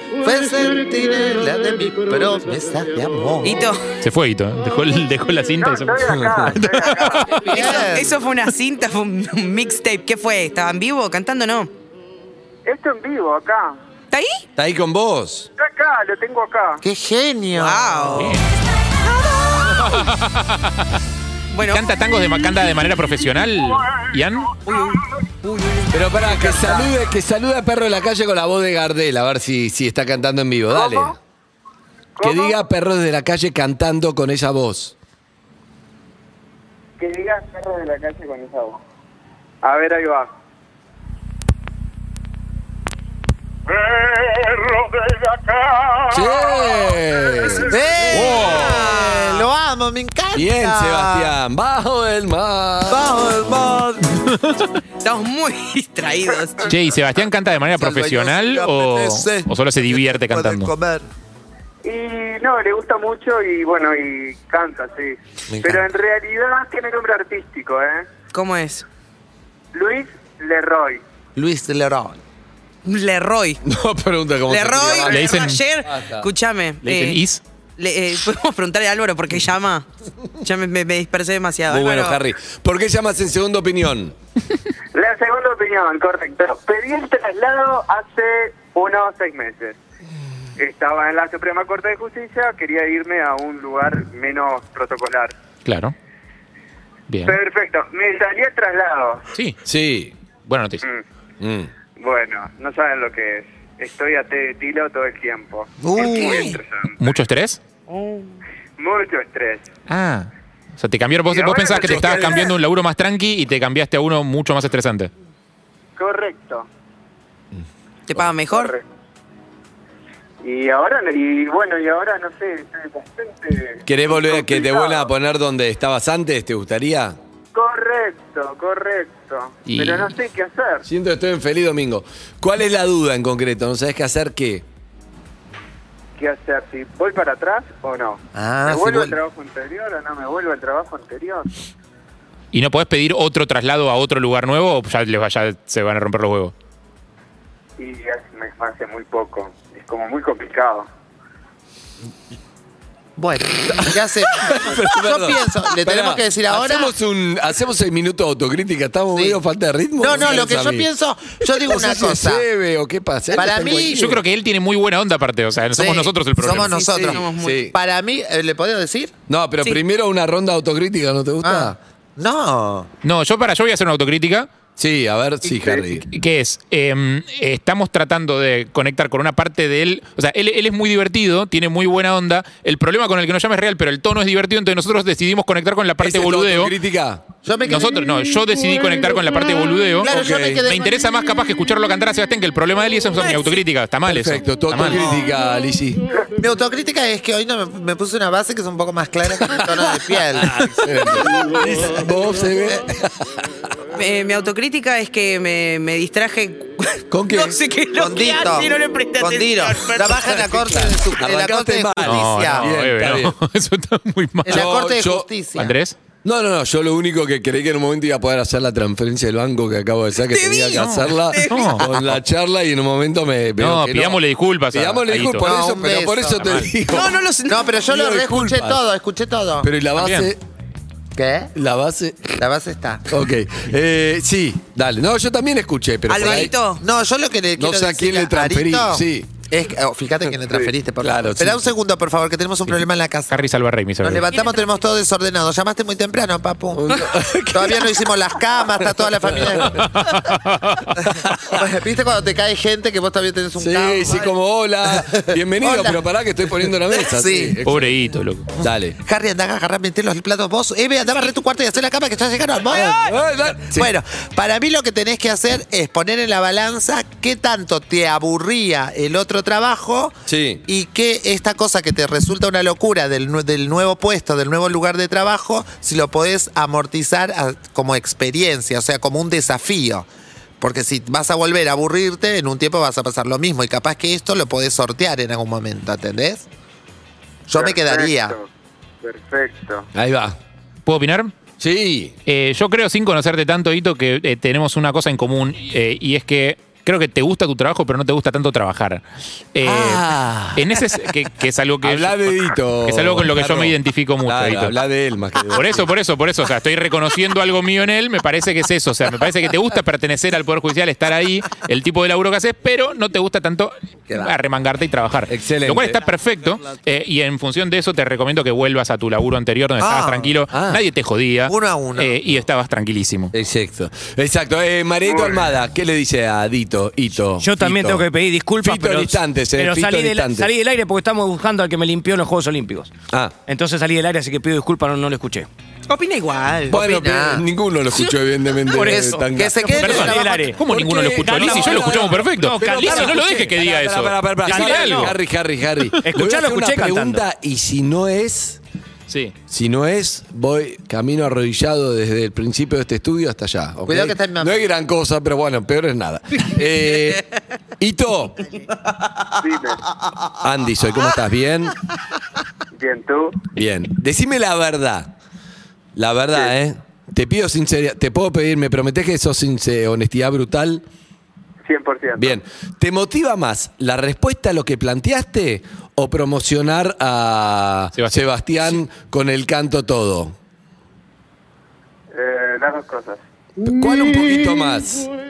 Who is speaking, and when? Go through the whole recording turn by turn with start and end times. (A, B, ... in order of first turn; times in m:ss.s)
0:00.2-0:03.6 A
0:03.4-0:03.8 B
0:04.0-0:07.6 C
0:05.6-0:07.6 D
0:06.0-0:06.6 E
0:07.3-0:11.7 B
0:07.5-0:08.2 A
0:12.6-0:13.8 D
0:14.1-0:14.4 B
0:14.6-0:15.5 E
0:15.6-0:16.8 D
0:16.8-0:18.0 A
0:17.5-0:18.4 B
0:18.1-0:18.4 C
0:19.2-0:20.0 B
0:19.8-0:20.9 C
0:21.5-0:21.8 B
0:21.7-0:24.6 C
0:24.6-0:25.9 B
0:25.9-0:31.2 E
0:32.2-0:32.6 D
0:32.2-0:34.9 E
0:37.0-0:38.8 D
0:39.6-0:40.3 D
0:43.7-0:46.1 D
0:46.1-0:48.8 E
0:47.4-0:49.4 B
0:47.5-0:51.3 A
0:50.3-0:53.1 E
0:52.9-0:54.2 A
0:54.4-0:54.6 C
0:55.0-0:56.7 B
0:56.7-1:00.7 C
0:57.8-1:01.1 A
1:01.8-1:08.1 D
1:05.5-1:05.8 A
1:08.3-1:08.8 B
1:09.7-1:11.0 D
1:11.4-1:12.2 A
1:12.8-1:13.6 B
1:13.6-1:16.3 E
1:14.5-1:17.2 B
1:15.0-1:15.6 C
1:16.8-1:17.4 C
1:17.8-1:19.8 B
1:20.4-1:22.2 B
1:21.7-1:24.1 E
1:24.9-1:29.8 D
1:30.6-1:35.3 D
1:35.6-1:35.9 C
1:37.1-1:37.4 C
1:37.2-1:39.2 D
1:39.6-1:40.1 E
1:40.5-1:40.8 C
1:41.4-1:41.7 E
1:42.0-1:47.0 D
1:45.8-1:46.6 A
1:47.0-1:47.6 C
1:47.9-1:48.3 B
1:48.8-1:49.6 D
1:49.9-1:55.1 C
1:51.3-1:52.5 D
1:51.7-1:52.4 E
1:56.0-1:56.7 D
1:58.1-1:58.7 B
1:58.5-1:58.8 D
2:00.4-2:05.1 D
2:03.8-2:07.2 E
2:07.5-2:10.8 D
2:09.6-2:10.1 C
2:10.8-2:14.6 E
2:16.2-2:21.5 D
2:18.3-2:19.2 A
2:22.5-2:26.5 C
2:27.8-2:30.9 D
2:33.2-2:36.9 A
2:34.4-2:40.9 E
2:39.1-2:39.4 A
2:40.0-2:42.4 A
2:41.4-2:44.2 E
2:43.3-2:44.0 A
2:43.9-2:46.8 C
2:45.8-2:49.1 A
2:46.5-2:47.6 B
2:46.9-2:47.7 E
2:49.3-2:51.8 E
2:51.4-2:52.9 A
2:53.0-2:54.5 C
2:54.8-2:56.0 E
2:55.5-2:55.9 D
2:56.1-3:06.7 C
3:06.0-3:07.2 E
3:07.4-3:08.0 A
3:07.6-3:10.1 C
3:10.0-3:10.6 E
3:10.0-3:11.0 A
3:10.6-3:15.0 C
3:14.0-3:16.0 E
3:16.3-3:20.7 A
3:19.4-3:23.5 E
3:23.9-3:30.4 B
3:27.1-3:27.6 E
3:27.9-3:32.7 A
3:30.1-3:33.3 E
3:32.0-3:34.8 C
3:34.4-3:35.7 A
3:34.5-3:35.3 E
3:35.6-3:35.9 C
3:36.2-3:47.2 E
3:40.3-3:41.8 B
3:40.8-3:41.9 C
3:41.9-3:42.2 A
3:43.6-3:45.5 C
3:45.4-3:46.4 A
3:46.3-3:46.7 C
3:46.9-3:47.6 B
3:47.5-3:49.7 A
3:47.9-3:48.8 E
3:49.6-3:50.4 E
3:50.0-3:50.3 C
3:51.1-3:51.5 A
3:51.5-3:52.4 E
3:52.4-3:53.0 A
3:53.1-3:56.5 E
3:56.1-3:56.8 B
3:56.2-4:03.4 A
3:57.6-3:59.3 E
4:01.0-4:01.7 E
4:02.6-4:04.2 C
4:04.0-4:09.9 A
4:06.7-4:08.0 E
4:08.8-4:09.9 E
4:09.7-4:11.0 C
4:11.0-4:11.6 E
4:11.5-4:14.3 A
4:13.6-4:18.0 E
4:14.9-4:17.6 A
4:17.6-4:18.5 C
4:18.6-4:30.1 A
4:18.6-4:19.0 E
4:22.7-4:23.9 E
4:30.2-4:30.6 E
4:30.6-4:40.1 A
4:40.6-4:46.4 A
4:47.5-4:48.4 A
4:47.6-4:48.5 D
4:49.0-4:49.9 D
4:49.9-4:50.4 E
4:50.8-4:51.3 C
4:51.6-4:52.1 E
4:52.2-4:59.0 C
4:59.5-5:04.8 C
4:59.6-5:00.7 E
5:01.8-5:05.9 E
5:05.5-5:23.3 C
5:15.3-5:16.0 E
5:19.8-5:20.3 A
5:20.5-5:20.8 E
5:21.5-5:22.2 A
5:23.3-5:28.1 E
5:25.0-5:25.4 D
5:27.4-5:32.9 F
5:28.6-5:30.5 E
5:33.1-5:33.4 E
5:33.4-5:35.5 F
5:35.9-5:36.8 B
5:36.7-5:40.1 E
5:36.7-5:37.4 A
5:38.7-5:45.2 F
5:38.8-5:40.5 A
5:39.8-5:45.1 C
5:40.7-5:48.6 E
5:46.0-5:47.2 F
5:49.1-5:49.3 C
5:49.5-5:57.2 E
5:53.9-5:54.6 A
5:57.8-5:58.4 E
5:59.4-5:59.8 D
6:00.4-6:01.8 E
6:02.8-6:03.4 D
6:03.5-6:05.1 E
6:06.0-6:10.8 E
6:11.6-6:12.4 D
6:12.2-6:20.4 E
6:18.0-6:18.3 C
6:22.1-6:23.2 D
6:23.6-6:25.1 E